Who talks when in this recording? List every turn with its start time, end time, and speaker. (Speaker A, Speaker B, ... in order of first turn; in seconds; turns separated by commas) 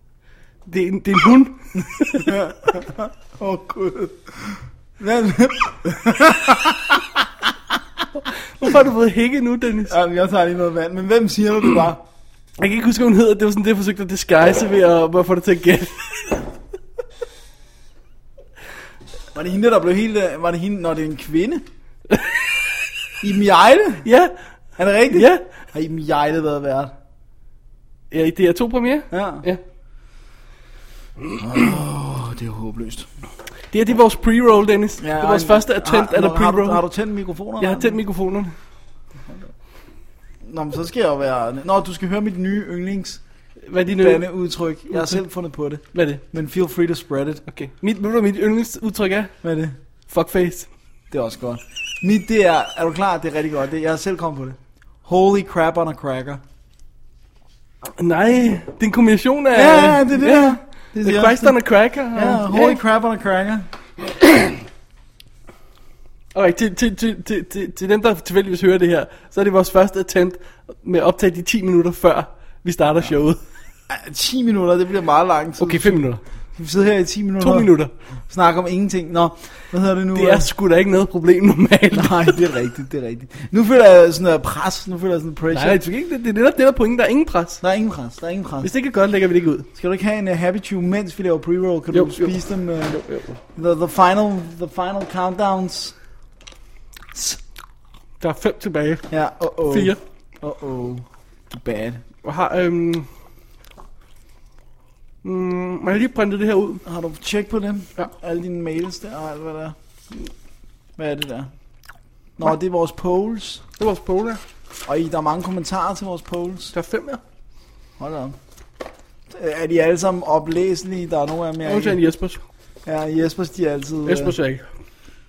Speaker A: 0.7-2.6, Speaker B: 2.2-7.2, Speaker A: 8.6-9.9, Speaker B: 9.9-12.0, Speaker A: 12.6-16.5, Speaker B: 19.3-21.6, Speaker A: 22.1-22.4, Speaker B: 23.2-24.1, Speaker A: 24.0-24.3, Speaker B: 24.8-26.9, Speaker A: 25.1-25.4, Speaker A: 28.1-29.6, Speaker B: 29.1-29.4, Speaker B: 31.3-33.1, Speaker A: 33.7-36.8, Speaker B: 35.0-38.0, Speaker A: 37.6-38.5, Speaker B: 40.4-43.2, Speaker A: 43.7-44.2, Speaker B: 43.9-47.4, Speaker A: 44.9-45.2, Speaker A: 45.9-46.2, Speaker A: 47.5-49.3, Speaker B: 49.4-49.7, Speaker A: 50.1-50.7, Speaker B: 51.1-56.4, Speaker A: 58.0-62.8, Speaker B: 59.5-61.6, Speaker B: 62.1-63.7, Speaker A: 64.2-64.5, Speaker A: 66.3-73.4, Speaker B: 73.9-76.0, Speaker A: 75.6-76.2, Speaker B: 76.5-77.7, Speaker A: 77.4-77.9, Speaker B: 78.3-80.5, Speaker A: 80.1-82.4, Speaker B: 81.9-85.8, Speaker A: 85.5-87.6, Speaker B: 87.6-88.7, Speaker A: 88.6-89.7, Speaker B: 89.7-93.0, Speaker A: 91.9-93.3, Speaker B: 93.5-96.0, Speaker B: 97.1-97.4, Speaker A: 98.2-99.1, Speaker B: 99.1-102.0, Speaker A: 99.7-100.0, Speaker A: 102.2-103.1, Speaker A: 105.2-106.8, Speaker B: 106.8-109.7, Speaker B: 111.0-111.5, Speaker B: 112.4-113.6, Speaker A: 113.8-114.4, Speaker B: 114.8-116.7, Speaker A: 116.7-117.2, Speaker B: 118.0-118.3, Speaker B: 119.3-122.0, Speaker A: 121.6-122.4, Speaker B: 122.8-124.3, Speaker A: 124.0-124.6